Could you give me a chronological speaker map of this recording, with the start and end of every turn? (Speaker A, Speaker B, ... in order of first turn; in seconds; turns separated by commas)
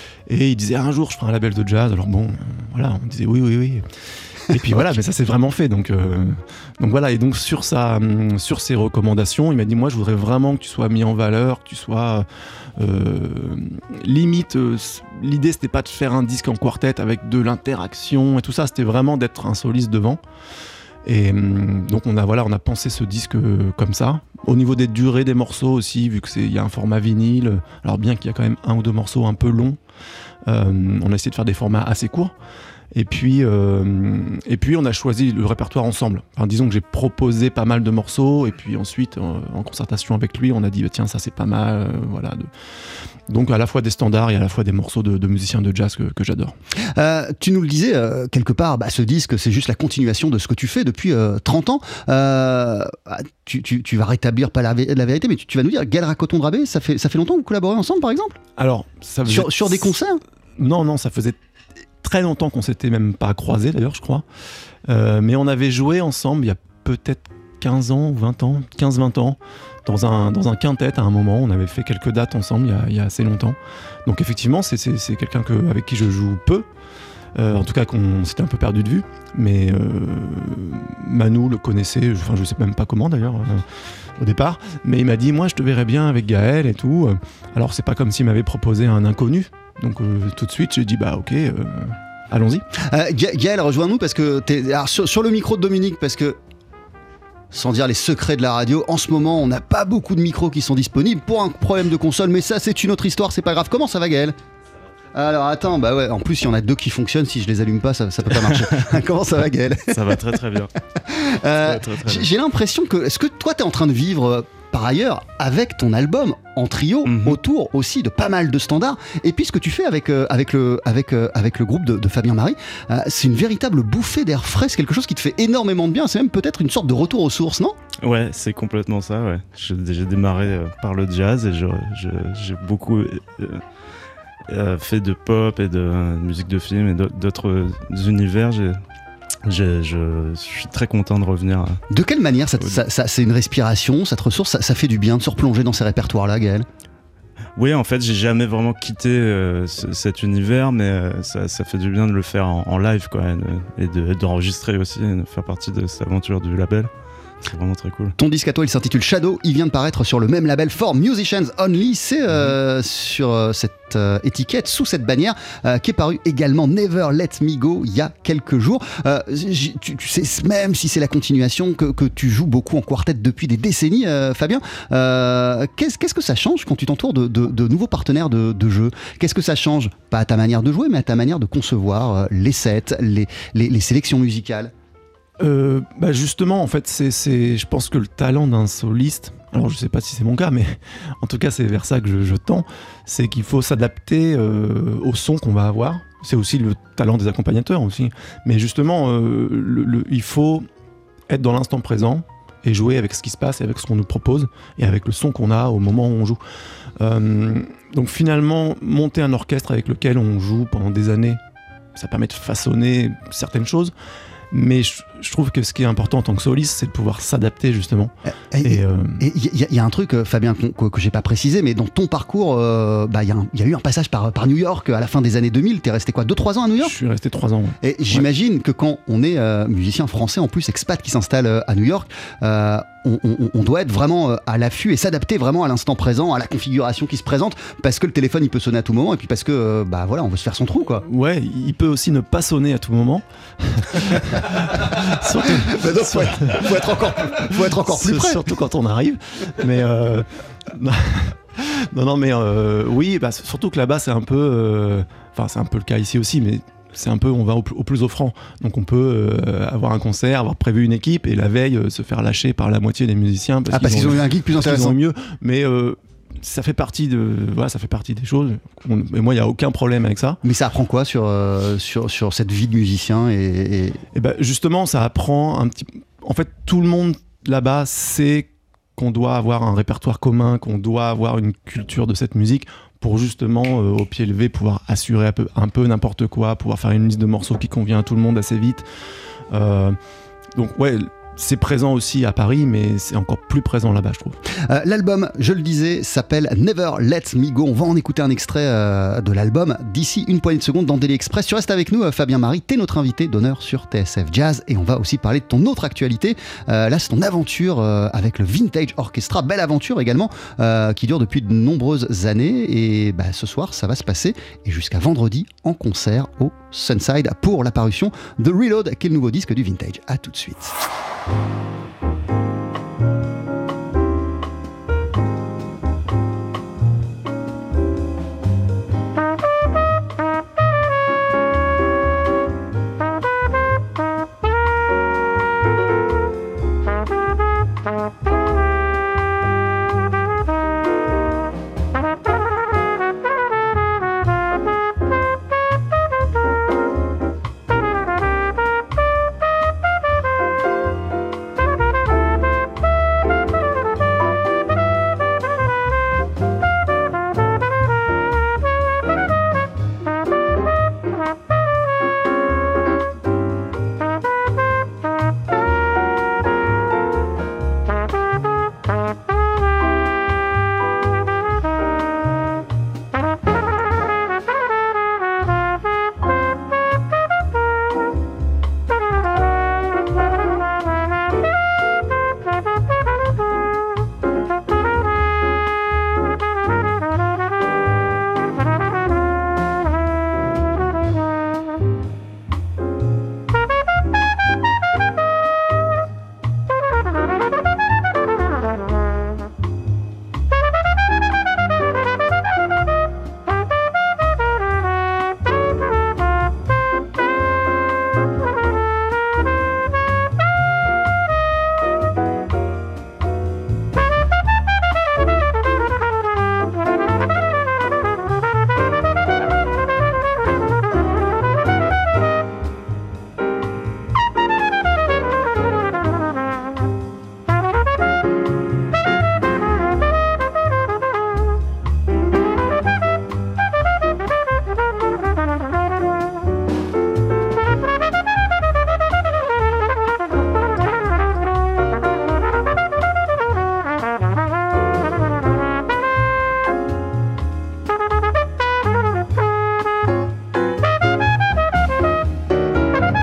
Speaker A: 0.3-3.9, Speaker A: 4.4-20.2, Speaker A: 21.1-29.8, Speaker A: 30.5-32.3, Speaker A: 32.9-42.5, Speaker A: 43.3-46.6, Speaker B: 47.0-58.4, Speaker A: 58.6-59.9, Speaker B: 59.2-60.2, Speaker A: 60.6-61.4, Speaker A: 62.0-64.2, Speaker A: 64.9-76.7, Speaker A: 77.3-83.7, Speaker A: 84.2-92.7, Speaker B: 92.8-96.4, Speaker B: 97.5-104.4, Speaker B: 105.2-110.0, Speaker C: 109.9-110.7, Speaker B: 111.1-127.8, Speaker C: 111.6-112.3, Speaker C: 117.1-117.4, Speaker C: 128.0-133.6, Speaker C: 134.5-138.8, Speaker C: 139.4-141.8, Speaker B: 141.9-146.7, Speaker C: 147.6-156.9, Speaker C: 157.4-158.2, Speaker B: 158.2-184.7, Speaker A: 185.4-200.7, Speaker A: 201.3-206.4, Speaker A: 207.0-211.4, Speaker A: 211.9-213.9, Speaker A: 214.5-219.2, Speaker B: 218.5-226.9, Speaker A: 226.8-228.2, Speaker B: 227.8-241.1, Speaker A: 241.0-270.4, Speaker B: 245.5-248.5, Speaker B: 263.7-265.0, Speaker B: 270.4-274.0, Speaker A: 274.1-288.9, Speaker A: 289.5-290.0, Speaker A: 290.6-294.4, Speaker B: 294.7-320.8